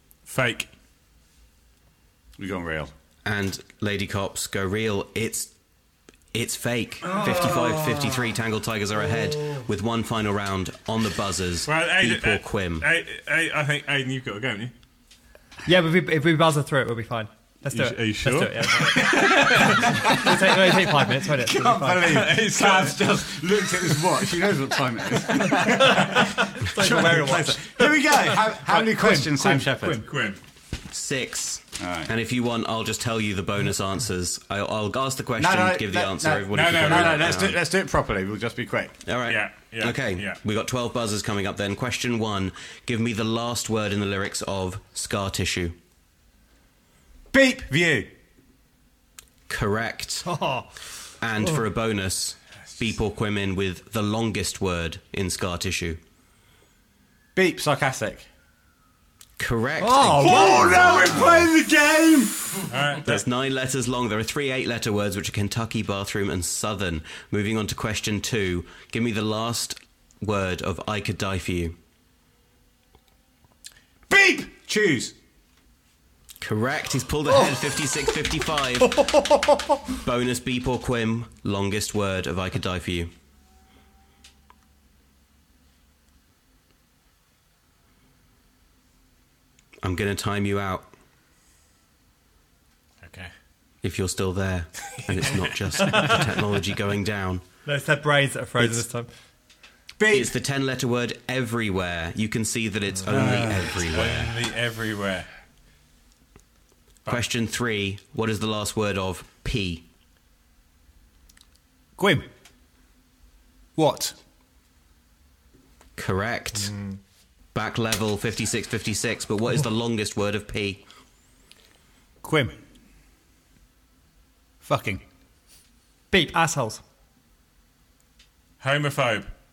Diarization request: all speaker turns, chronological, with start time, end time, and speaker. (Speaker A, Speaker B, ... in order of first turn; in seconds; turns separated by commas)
Speaker A: 0.3-0.7, Speaker B: 2.4-2.9, Speaker C: 3.2-5.5, Speaker C: 6.3-12.9, Speaker B: 7.1-8.0, Speaker D: 7.5-7.9, Speaker A: 11.7-14.7, Speaker D: 15.6-22.3, Speaker A: 17.7-20.1, Speaker B: 19.0-20.5, Speaker B: 21.2-30.0, Speaker A: 22.2-23.0, Speaker D: 25.5-27.6, Speaker E: 26.8-27.3, Speaker E: 28.3-30.2, Speaker A: 30.0-30.4, Speaker C: 30.9-37.6, Speaker B: 31.8-32.1, Speaker B: 35.4-38.9, Speaker A: 36.5-37.5, Speaker C: 39.0-45.8, Speaker A: 39.3-40.4, Speaker B: 47.3-48.1, Speaker C: 49.5-50.3, Speaker D: 50.2-50.7, Speaker C: 51.2-56.0, Speaker B: 57.3-58.3, Speaker C: 59.4-61.4, Speaker D: 59.8-61.4, Speaker B: 60.2-62.6, Speaker A: 62.7-63.2, Speaker C: 63.0-71.8, Speaker B: 74.1-75.2, Speaker C: 76.4-79.2, Speaker D: 79.0-79.3, Speaker C: 79.9-83.1, Speaker C: 89.8-90.9, Speaker A: 93.0-93.3, Speaker C: 93.8-97.4, Speaker A: 94.9-95.5, Speaker D: 95.8-96.3, Speaker D: 97.6-99.1, Speaker C: 98.6-98.8, Speaker B: 100.0-100.3, Speaker C: 100.1-104.3, Speaker B: 103.1-103.6, Speaker A: 103.1-105.3, Speaker C: 107.0-109.8, Speaker E: 112.0-112.3, Speaker E: 113.8-114.2, Speaker C: 116.0-116.7, Speaker D: 116.6-117.0, Speaker C: 117.5-120.8, Speaker E: 122.2-122.5, Speaker E: 124.6-125.0, Speaker D: 126.1-126.8, Speaker A: 128.6-129.3